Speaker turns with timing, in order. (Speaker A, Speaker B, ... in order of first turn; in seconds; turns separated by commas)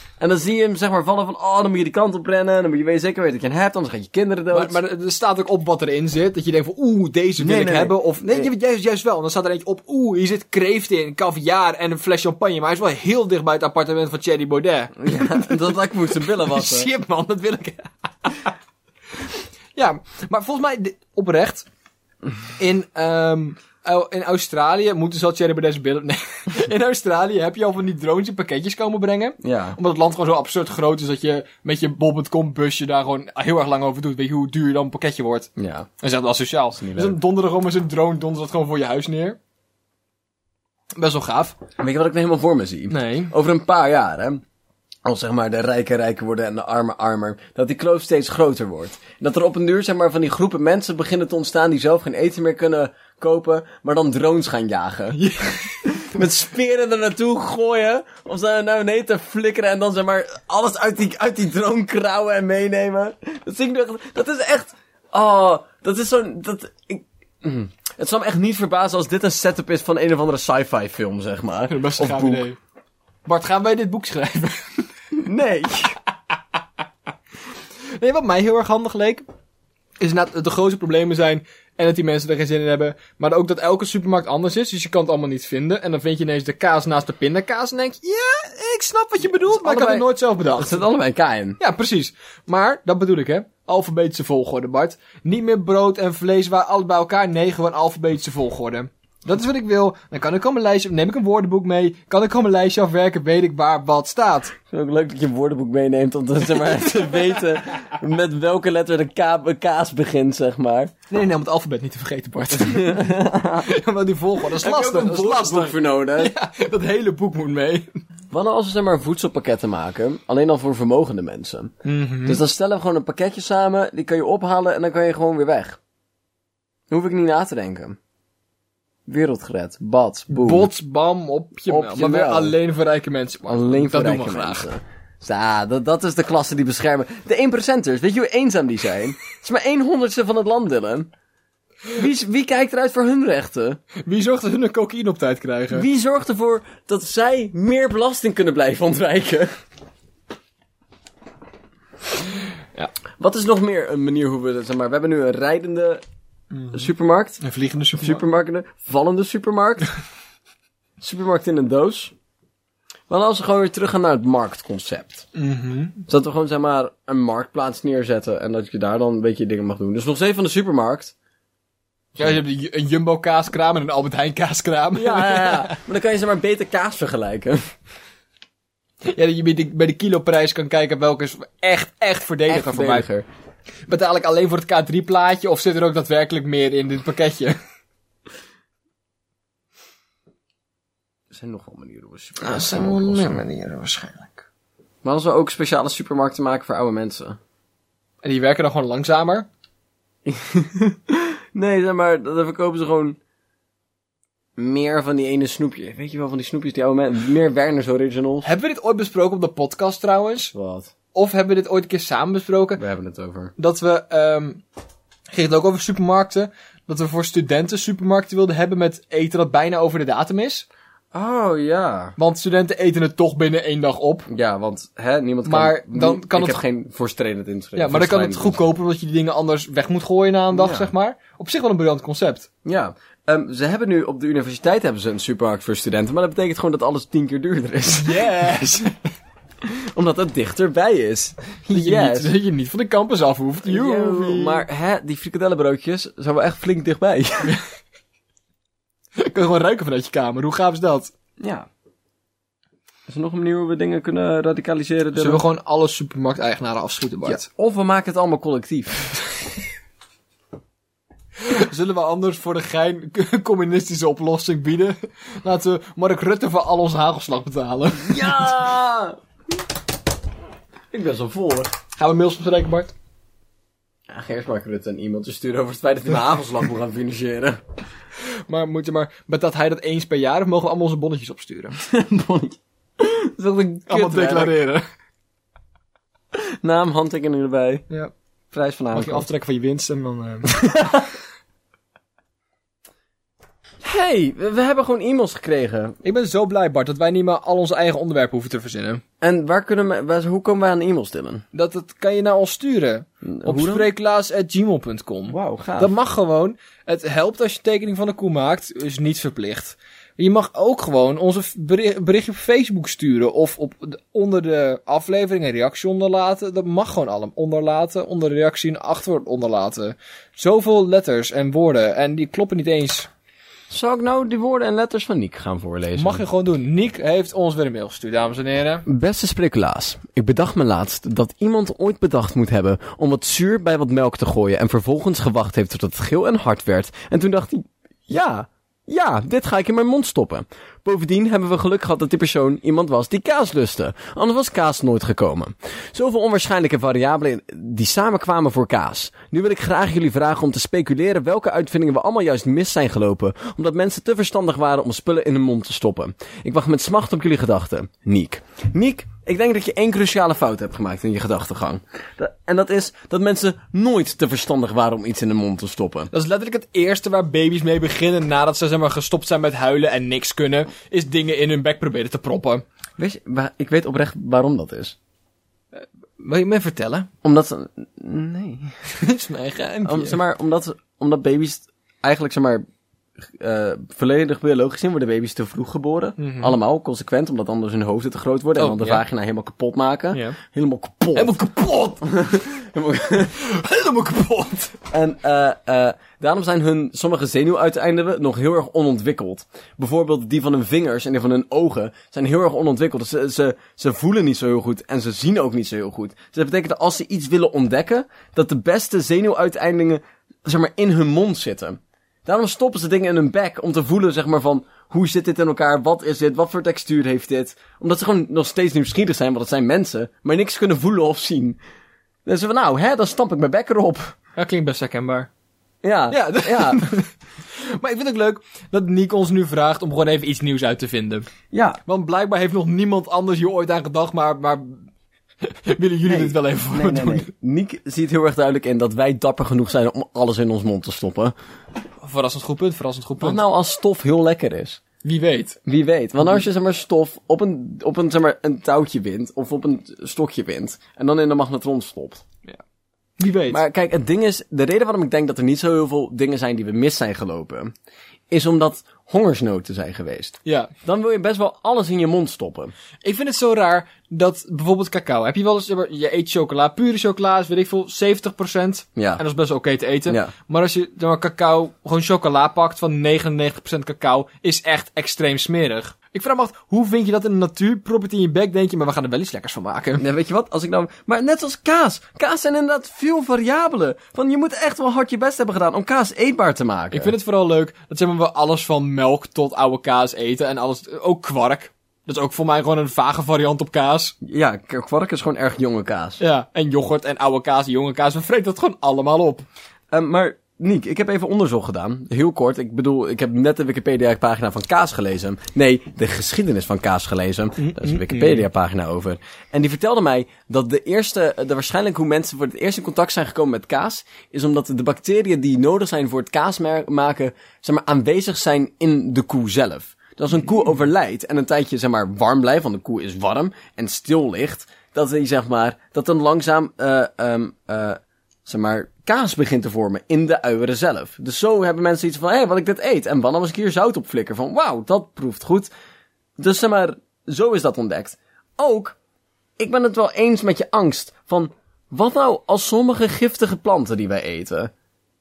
Speaker A: 0.2-4.8, Speaker B: 4.5-18.5, Speaker A: 7.4-8.5, Speaker A: 15.0-16.9, Speaker B: 19.8-21.7, Speaker B: 22.6-35.5, Speaker A: 29.4-29.8, Speaker A: 35.6-35.9, Speaker B: 36.0-39.4, Speaker A: 36.8-37.2, Speaker B: 41.0-41.6, Speaker A: 41.8-44.4, Speaker B: 42.9-43.3, Speaker A: 45.0-55.2, Speaker B: 55.1-56.0, Speaker A: 55.8-72.5, Speaker B: 71.7-72.6, Speaker B: 73.3-74.8, Speaker A: 75.1-76.0, Speaker B: 78.0-79.2, Speaker B: 80.0-90.8, Speaker A: 89.5-91.6, Speaker B: 91.6-104.5, Speaker A: 104.7-110.9, Speaker B: 111.1-118.0, Speaker A: 112.5-113.7, Speaker A: 114.6-116.3, Speaker A: 118.3-121.7, Speaker B: 121.8-122.4, Speaker A: 122.2-125.8, Speaker A: 126.9-128.0, Speaker A: 129.1-130.7, Speaker B: 130.3-134.7, Speaker A: 131.7-132.6, Speaker A: 133.5-141.1, Speaker A: 141.9-143.8, Speaker B: 144.0-145.9, Speaker A: 145.7-149.5, Speaker A: 153.2-156.0, Speaker B: 156.5-156.9, Speaker A: 156.7-157.4, Speaker B: 157.4-158.2, Speaker A: 158.0-159.9, Speaker A: 161.0-162.1, Speaker A: 163.1-165.3, Speaker B: 165.3-166.0, Speaker A: 166.1-171.1, Speaker B: 172.2-175.8, Speaker A: 174.9-177.7, Speaker B: 179.1-183.1, Speaker A: 182.5-183.3, Speaker B: 183.9-187.6, Speaker A: 191.3-193.4, Speaker B: 192.4-194.4, Speaker A: 195.0-197.4, Speaker B: 198.2-199.5, Speaker A: 200.2-203.2, Speaker A: 204.6-208.5, Speaker B: 208.4-210.5, Speaker A: 210.5-210.9, Speaker B: 211.1-212.8, Speaker A: 212.8-213.5, Speaker B: 213.6-214.6, Speaker B: 215.3-220.7, Speaker A: 221.1-222.2, Speaker B: 222.2-224.3, Speaker A: 224.3-228.7, Speaker B: 225.4-226.6, Speaker B: 227.8-232.5, Speaker A: 230.5-230.9, Speaker A: 232.7-238.3, Speaker B: 238.0-239.0, Speaker A: 239.6-242.3, Speaker B: 241.7-244.7, Speaker A: 243.7-247.6, Speaker B: 249.2-251.1, Speaker A: 251.4-251.7, Speaker A: 253.1-255.4, Speaker B: 255.2-257.4, Speaker A: 257.3-259.3, Speaker B: 261.4-268.5, Speaker A: 268.0-269.2, Speaker A: 270.9-271.7, Speaker B: 272.0-272.9, Speaker A: 274.1-277.6, Speaker B: 278.5-281.8, Speaker A: 281.8-284.6, Speaker B: 283.9-284.8, Speaker A: 286.3-287.9, Speaker A: 288.5-289.3, Speaker B: 288.9-290.6, Speaker A: 290.5-291.1, Speaker A: 293.8-296.0, Speaker B: 296.0-299.0, Speaker A: 299.2-301.4, Speaker B: 301.5-323.1, Speaker A: 303.2-303.9, Speaker A: 305.3-305.9, Speaker A: 323.7-326.2, Speaker B: 326.0-328.9, Speaker A: 328.9-366.1, Speaker B: 366.1-372.6, Speaker A: 373.0-375.0, Speaker B: 376.2-377.1, Speaker A: 377.2-378.8, Speaker B: 378.9-380.2, Speaker A: 379.9-382.6, Speaker A: 383.2-391.4, Speaker B: 386.2-386.6, Speaker B: 388.6-389.0, Speaker B: 390.1-390.4, Speaker B: 391.1-392.0, Speaker A: 392.0-393.4, Speaker B: 393.3-394.8, Speaker A: 394.9-421.6, Speaker A: 422.3-424.1, Speaker B: 424.4-425.3, Speaker A: 425.8-426.8, Speaker B: 426.1-431.3, Speaker A: 431.5-431.8, Speaker B: 431.9-434.9, Speaker B: 435.4-437.3, Speaker A: 436.1-441.4, Speaker B: 442.0-443.4, Speaker A: 443.2-444.8, Speaker B: 445.0-445.6, Speaker A: 445.6-452.2, Speaker B: 453.2-453.6, Speaker A: 453.5-457.7, Speaker A: 458.3-462.7, Speaker B: 460.4-460.7, Speaker B: 463.0-480.0, Speaker A: 469.0-469.2, Speaker A: 470.1-470.3, Speaker A: 480.0-487.1, Speaker B: 486.9-494.2, Speaker A: 494.2-496.2, Speaker B: 496.2-499.4, Speaker A: 499.9-535.7, Speaker B: 507.6-508.4, Speaker A: 536.4-539.0, Speaker A: 539.6-544.7